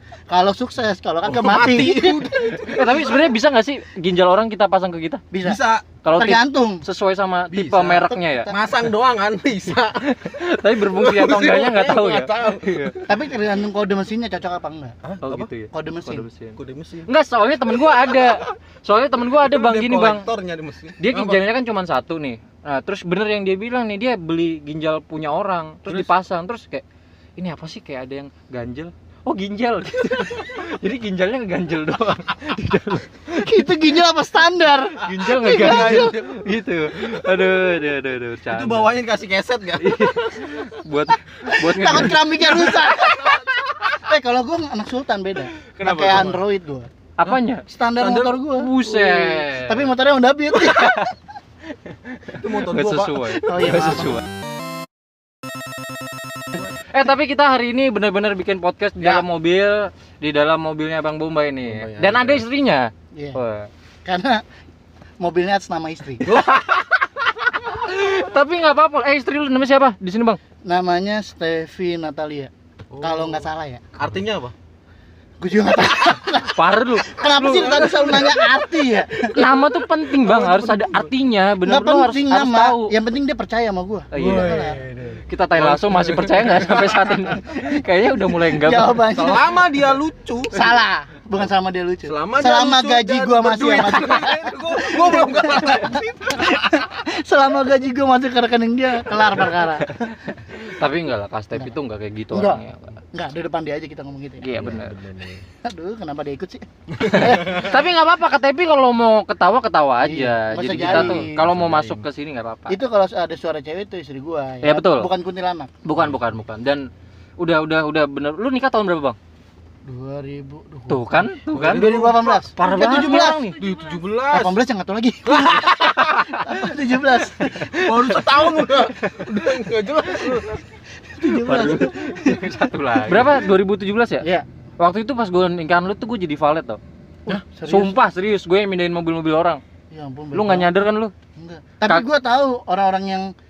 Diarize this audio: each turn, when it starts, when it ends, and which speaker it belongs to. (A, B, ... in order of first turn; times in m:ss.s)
0:00.3-0:02.2 A
0:01.2-0:03.3 B
0:01.6-0:05.2 C
0:05.3-0:05.6 A
0:05.4-0:05.9 B
0:06.0-0:08.5 C
0:06.1-0:06.8 A
0:07.5-0:13.2 B
0:08.3-0:08.7 A
0:10.0-0:13.0 C
0:13.1-0:15.0 A
0:15.0-0:15.5 B
0:15.2-0:20.3 C
0:15.7-0:16.3 A
0:16.6-0:17.1 B
0:17.7-0:18.5 B
0:19.3-0:21.4 B
0:21.0-0:26.8 C
0:27.4-0:33.5 C
0:33.3-0:36.2 A
0:35.0-0:39.0 C
0:35.3-0:36.4 B
0:38.5-0:40.7 B
0:39.8-0:42.7 C
0:41.3-0:46.9 A
0:42.2-0:44.0 B
0:45.8-0:46.3 C
0:45.8-0:46.4 B
0:47.2-0:47.7 C
0:47.7-0:48.8 A
0:48.0-0:49.4 B
0:48.5-0:49.9 C
0:49.6-0:51.1 A
0:50.7-0:51.0 B
0:50.8-0:51.1 C
0:51.9-0:54.2 C
0:52.3-0:54.0 B
0:53.4-0:54.2 A
0:56.8-1:03.7 C
1:01.6-1:02.5 B
1:03.1-1:03.4 A
1:04.0-1:04.4 A
1:05.2-1:06.3 A
1:06.2-1:07.0 B
1:06.3-1:06.8 C
1:07.6-1:10.4 C
1:10.6-1:13.8 A
1:12.9-1:14.5 B
1:15.4-1:19.4 A
1:16.3-1:18.0 C
1:17.4-1:21.1 B
1:19.3-1:23.0 C
1:21.6-1:24.8 A
1:24.1-1:24.7 C
1:24.1-1:27.3 B
1:25.3-1:29.1 C
1:28.4-1:29.6 A
1:29.1-1:30.7 B
1:30.5-1:40.0 A
1:32.0-1:36.8 B
1:39.9-1:43.0 C
1:42.3-1:44.8 A
1:44.4-1:45.0 C
1:44.5-1:45.4 B
1:45.6-1:47.6 A
1:46.9-1:47.8 B
1:47.1-1:52.8 C
1:50.0-1:51.5 A
1:50.7-1:52.0 B
1:52.7-1:55.7 A
1:54.6-1:55.1 C
1:55.8-1:59.2 C
1:59.8-2:03.4 A
2:00.9-2:02.0 C
2:01.5-2:02.5 B
2:02.6-2:03.6 C
2:03.2-2:04.6 B
2:04.3-2:08.5 A
2:05.3-2:06.3 B
2:06.1-2:06.4 C
2:07.6-2:10.6 B
2:11.1-2:12.8 A
2:11.2-2:14.3 C
2:11.6-2:12.3 B
2:14.2-2:14.5 A
2:14.8-2:16.8 C
2:17.3-2:18.0 A
2:17.6-2:19.6 C
2:19.9-2:20.8 A
2:20.3-2:21.1 C
2:21.4-2:23.3 A